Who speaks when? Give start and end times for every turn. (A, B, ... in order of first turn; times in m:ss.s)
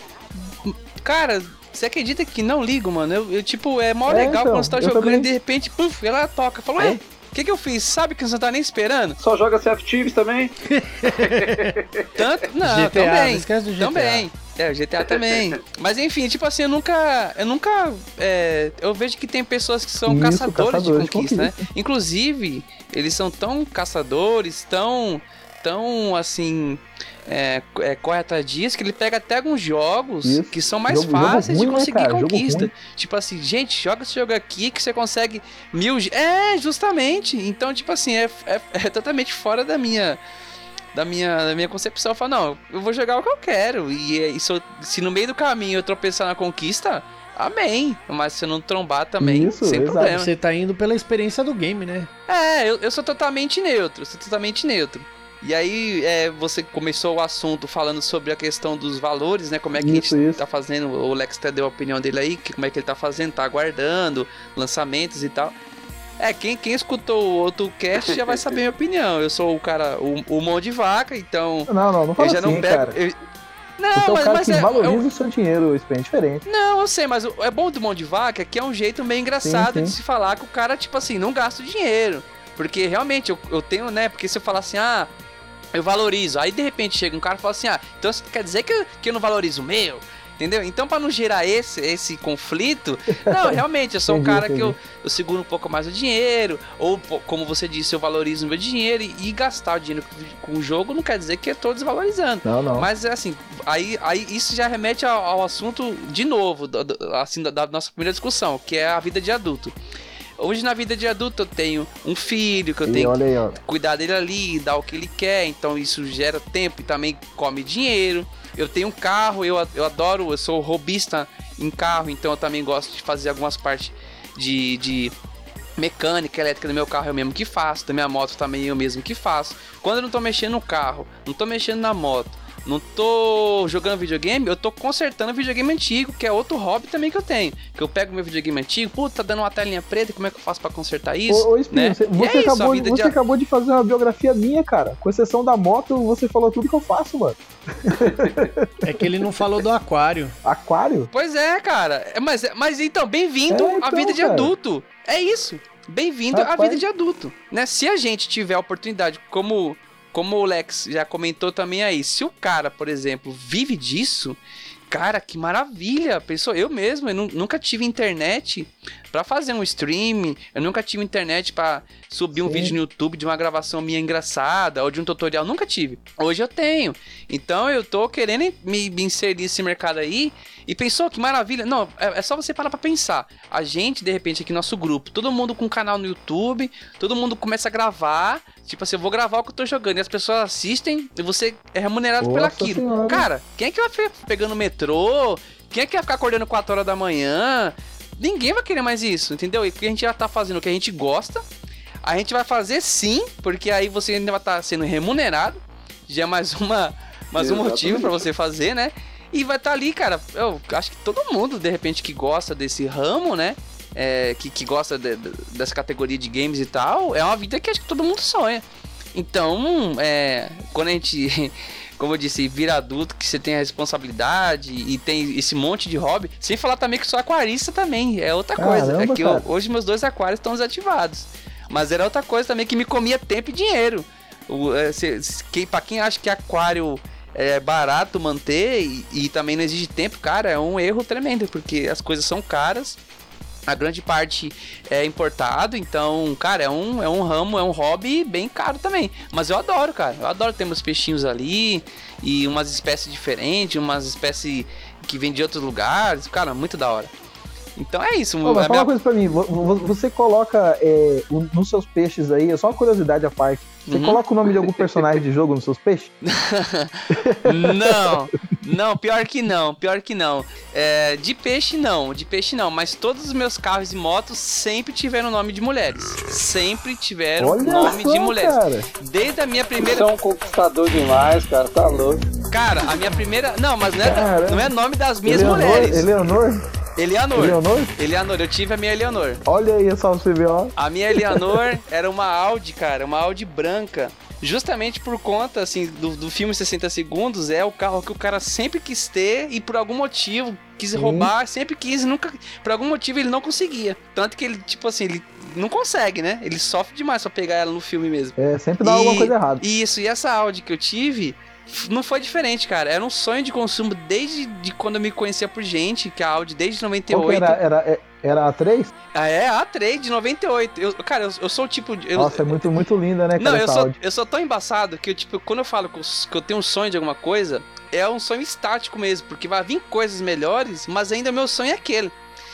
0:00.6-0:09.2 A
0:04.1-0:05.3 B
0:09.2-0:12.1 C
0:10.6-0:11.7 D
0:12.2-0:40.2 A
0:12.6-0:14.3 D
0:15.1-0:15.5 C
0:20.0-0:21.6 B
0:30.2-0:32.7 B
0:40.9-0:50.3 A
0:49.2-0:50.2 B
0:50.0-0:52.1 D
0:52.3-1:05.5 A
0:59.7-1:00.4 B
1:06.2-1:13.1 A
1:08.0-1:08.4 C
1:11.7-1:12.9 B
1:13.8-1:15.0 A
1:13.9-1:16.4 B
1:16.4-1:25.1 A
1:19.4-1:19.9 B
1:25.7-1:49.7 A
1:33.2-1:34.8 B
1:42.4-1:42.9 B
1:50.4-2:05.1 A
1:52.8-1:53.6 B
2:05.8-2:23.1 A
2:21.3-2:28.7 B
2:28.0-2:28.4 C
2:28.8-2:30.3 D
2:30.4-2:31.1 B
2:31.1-2:44.4 A
2:33.5-2:34.5 B
2:36.3-2:36.8 B
2:44.9-3:21.4 A
2:52.3-2:52.7 B
3:12.2-3:13.3 B
3:22.0-3:38.6 A
3:27.4-3:28.2 C
3:39.1-4:03.0 A
3:48.6-3:49.4 B
4:03.7-4:17.1 A
4:17.8-4:18.9 A
4:18.4-4:26.1 B
4:23.9-4:25.1 A
4:26.2-4:40.0 A
4:27.1-4:28.2 B
4:37.4-4:38.9 B
4:39.8-4:42.2 C
4:42.5-4:46.1 A
4:44.0-4:44.7 B
4:45.2-4:46.6 B
4:47.0-4:49.4 A
4:47.3-4:47.9 B
4:49.4-4:51.6 B
4:50.8-5:17.6 A
5:00.9-5:01.3 B
5:08.4-5:09.6 B
5:17.1-5:18.9 B
5:19.1-5:22.6 A
5:22.1-5:24.0 B
5:23.4-5:32.1 A